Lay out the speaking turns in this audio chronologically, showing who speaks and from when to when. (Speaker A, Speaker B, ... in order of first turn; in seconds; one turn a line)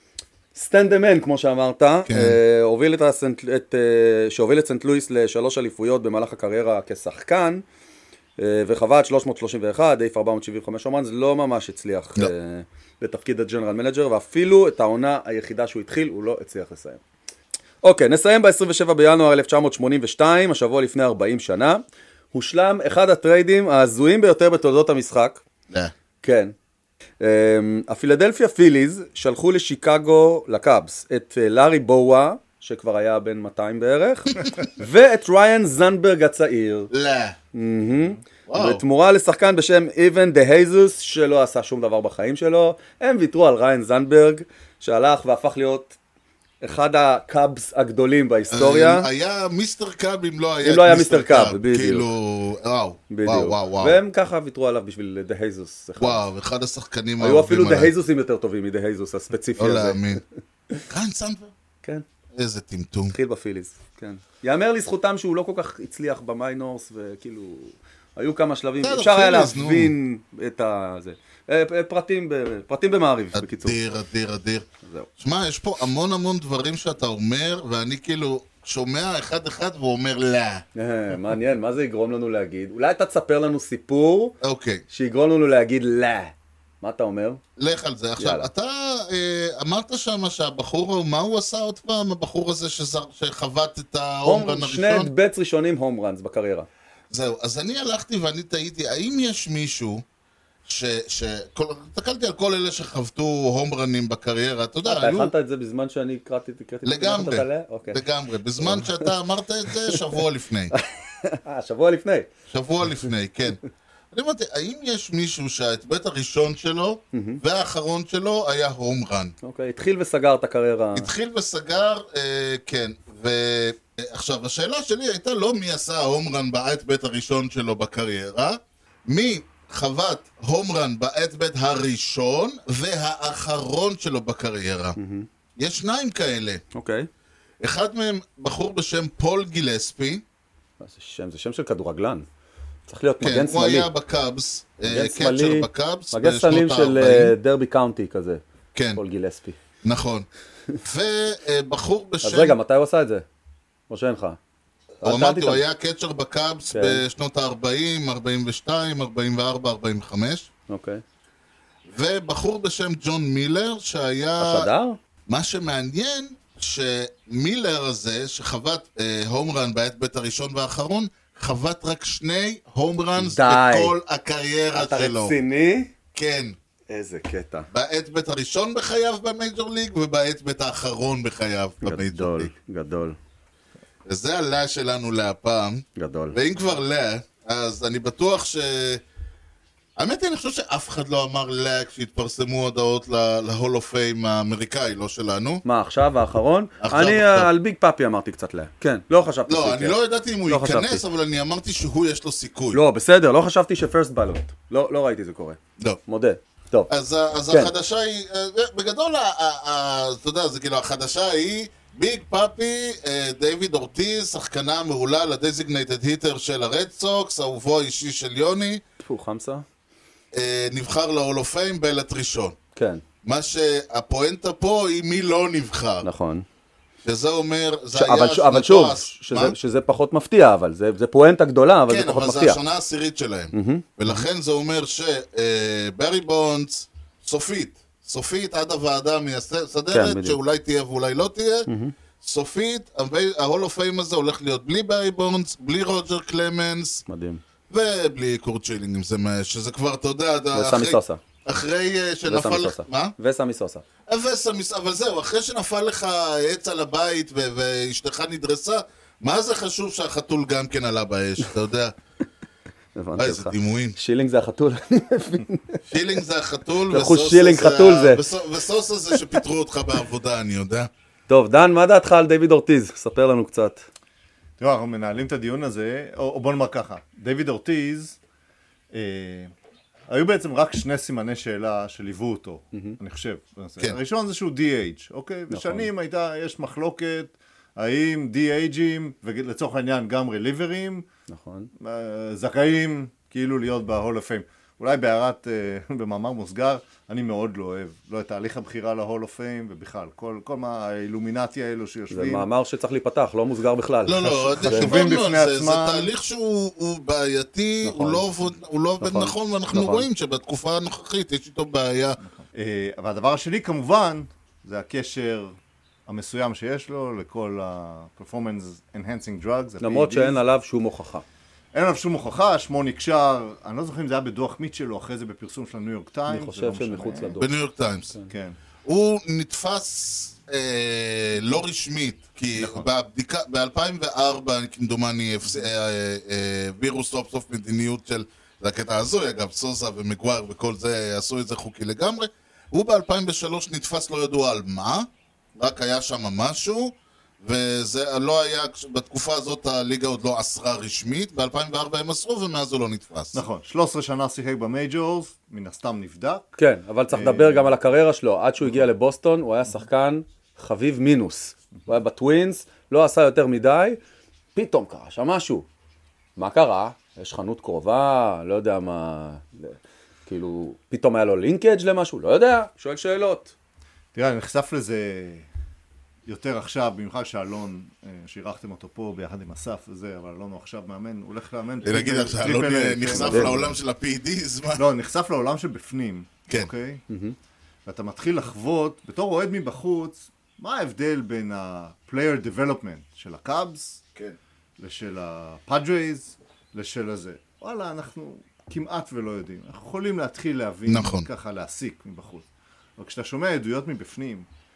Speaker A: 0.5-7.6
Speaker B: 2.1-2.4
Speaker A: 8.4-17.0
Speaker A: 17.8-21.8
Speaker A: 22.3-25.4
Speaker A: 26.2-26.5
Speaker A: 27.2-36.9
Speaker B: 36.9-37.4
Speaker A: 37.5-46.0
Speaker B: 38.5-38.8
Speaker A: 46.6-49.1
Speaker B: 48.5-54.0
Speaker A: 50.6-52.1
Speaker A: 53.1-56.2
Speaker B: 56.0-57.9
Speaker A: 57.2-60.2
Speaker B: 59.6-60.2
Speaker B: 60.9-61.5
Speaker B: 62.3-63.1
Speaker A: 63.1-73.8
Speaker B: 68.8-69.9
Speaker B: 73.3-74.7
Speaker A: 74.8-75.1
Speaker B: 75.2-80.6
Speaker A: 80.8-84.4
Speaker B: 84.4-84.8
Speaker A: 84.9-87.4
Speaker B: 87.6-95.1
Speaker A: 88.2-88.5
Speaker A: 94.2-96.7
Speaker B: 97.1-100.0
Speaker B: 100.6-105.3
Speaker A: 104.8-108.0
Speaker B: 106.8-110.7
Speaker A: 108.6-109.1
Speaker A: 109.7-110.0
Speaker A: 110.7-112.3
Speaker B: 112.5-113.6
Speaker B: 114.1-119.3
Speaker A: 117.1-117.4
Speaker A: 119.4-121.1
Speaker B: 121.0-135.0
Speaker A: 135.0-135.3
Speaker B: 135.6-136.6
Speaker A: 136.7-137.1
Speaker B: 137.6-140.2
Speaker A: 140.8-142.2
Speaker A: 142.9-143.9
Speaker B: 143.2-147.3
Speaker A: 144.9-148.4
Speaker B: 148.7-149.0
Speaker A: 148.9-149.6
Speaker B: 149.8-150.3
Speaker B: 150.8-152.6
Speaker A: 152.2-153.2
Speaker A: 153.9-154.4
Speaker A: 155.0-155.6
Speaker B: 155.0-160.5
Speaker A: 156.7-157.0
Speaker A: 160.7-161.0
Speaker B: 161.9-164.7
Speaker A: 164.4-165.0
Speaker B: 165.3-175.3
Speaker A: 173.2-173.9
Speaker A: 174.7-175.9
Speaker B: 176.1-176.6
Speaker A: 176.9-177.7
Speaker B: 177.7-182.5
Speaker A: 181.8-183.2
Speaker B: 184.1-189.0
Speaker A: 185.9-186.3
Speaker B: 190.0-195.6
Speaker A: 195.6-200.0
Speaker B: 196.8-197.5
Speaker B: 199.5-202.8
Speaker A: 200.5-201.0
Speaker A: 202.7-206.9
Speaker B: 206.9-218.8
Speaker A: 219.0-219.6
Speaker B: 220.3-222.6
Speaker A: 222.8-223.0
Speaker B: 223.2-226.1
Speaker A: 226.0-226.4
Speaker B: 227.0-229.6
Speaker A: 227.9-232.6
Speaker B: 231.9-241.7
Speaker A: 233.5-234.2
Speaker A: 239.9-240.3
Speaker A: 241.7-241.9
Speaker B: 242.2-247.0
Speaker A: 247.1-247.4
Speaker B: 247.7-253.1
Speaker A: 250.5-251.2
Speaker A: 252.3-253.8
Speaker B: 254.1-261.9
Speaker A: 262.9-265.8
Speaker B: 263.2-263.9
Speaker B: 265.9-270.9
Speaker A: 266.9-268.2
Speaker A: 271.3-273.8
Speaker C: 274.6-278.2
Speaker C: 278.9-279.5
Speaker C: 280.1-291.1
Speaker A: 285.5-285.9
Speaker A: 291.3-291.7
Speaker C: 291.8-302.4
Speaker A: 302.1-305.0
Speaker B: 304.1-312.2
Speaker C: 304.6-306.1
Speaker A: 307.8-308.2
Speaker A: 309.0-310.1
Speaker C: 312.4-315.5
Speaker C: 316.1-320.4
Speaker A: 319.8-321.2
Speaker C: 321.7-327.4
Speaker A: 326.3-327.4
Speaker B: 327.4-328.1
Speaker C: 328.3-328.6
Speaker B: 328.8-353.4
Speaker C: 332.6-332.9
Speaker C: 353.3-356.6
Speaker A: 356.6-364.0
Speaker C: 357.1-357.7
Speaker A: 364.5-365.6
Speaker A: 366.4-373.5
Speaker C: 374.1-375.5
Speaker C: 376.2-383.7
Speaker B: 381.8-384.8
Speaker A: 383.1-383.6
Speaker C: 384.8-387.0
Speaker A: 387.1-387.4
Speaker C: 387.9-394.1
Speaker C: 394.8-402.5
Speaker B: 400.9-401.3
Speaker C: 403.0-404.5